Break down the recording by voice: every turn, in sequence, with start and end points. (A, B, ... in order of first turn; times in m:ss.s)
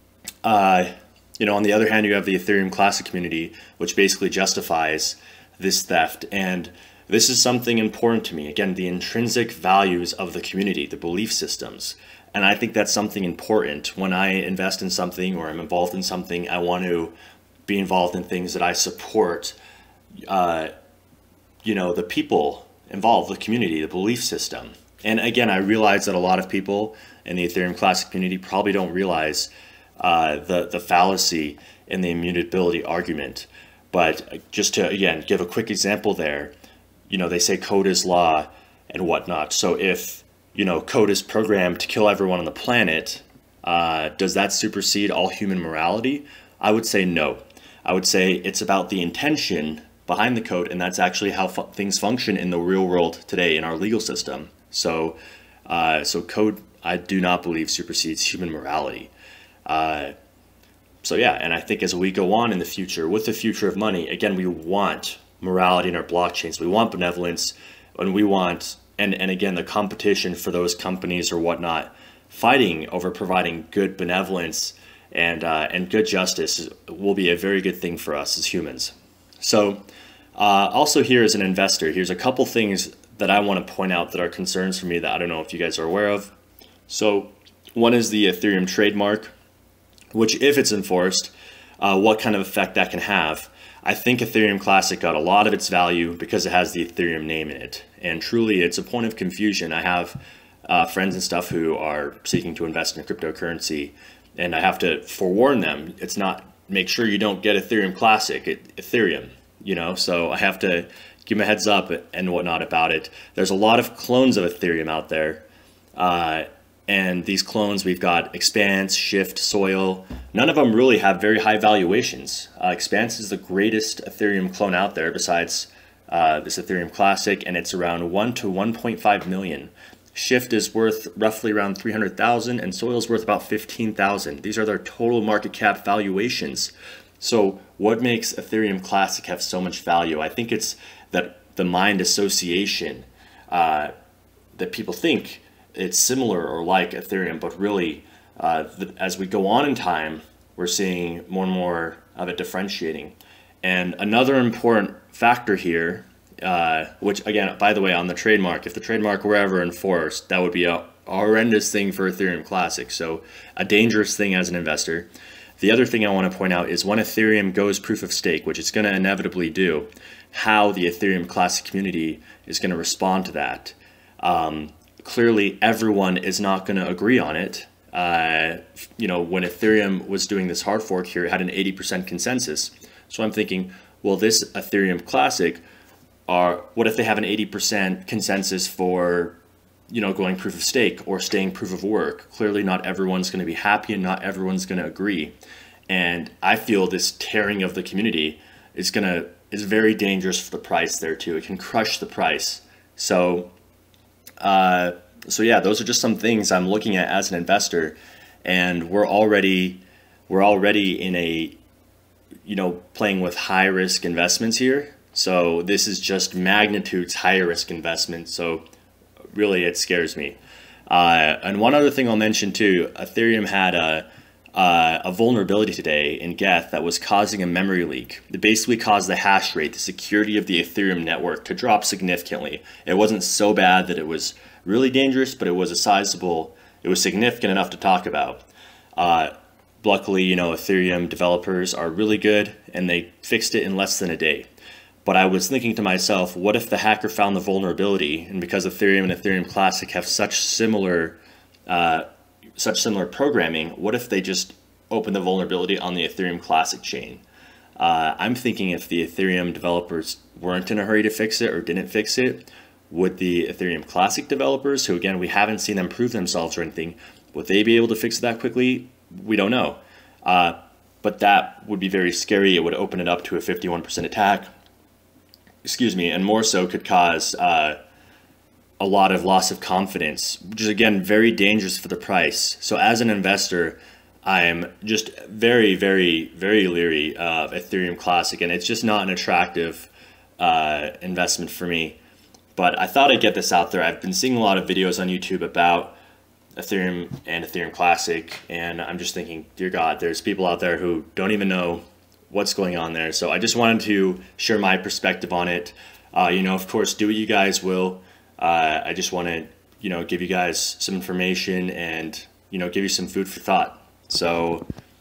0:00.4-0:17.1 A
0:17.7-0:19.6 A
0:20.3-0:20.7 A
0:21.6-0:36.5 A
0:37.1-0:59.1 A
0:59.7-1:00.2 A
1:01.0-1:19.8 A
1:20.4-1:26.3 A
1:26.9-1:29.3 A
1:30.1-1:55.4 A
1:56.0-2:23.9 A
2:24.6-2:45.1 A
2:45.6-3:05.6 A
3:06.3-3:09.4 A
3:09.9-3:15.4 A
3:15.9-3:23.5 A
3:24.4-3:31.6 A
3:32.4-3:38.6 A
3:39.3-3:40.4 A
3:40.9-3:58.5 A
3:59.0-4:04.5 A
4:05.0-4:12.1 A
4:12.6-4:17.2 A
4:17.8-4:34.5 A
4:35.6-4:37.8 A
4:38.8-4:52.0 A
4:52.6-4:56.0 A
4:56.6-5:14.7 A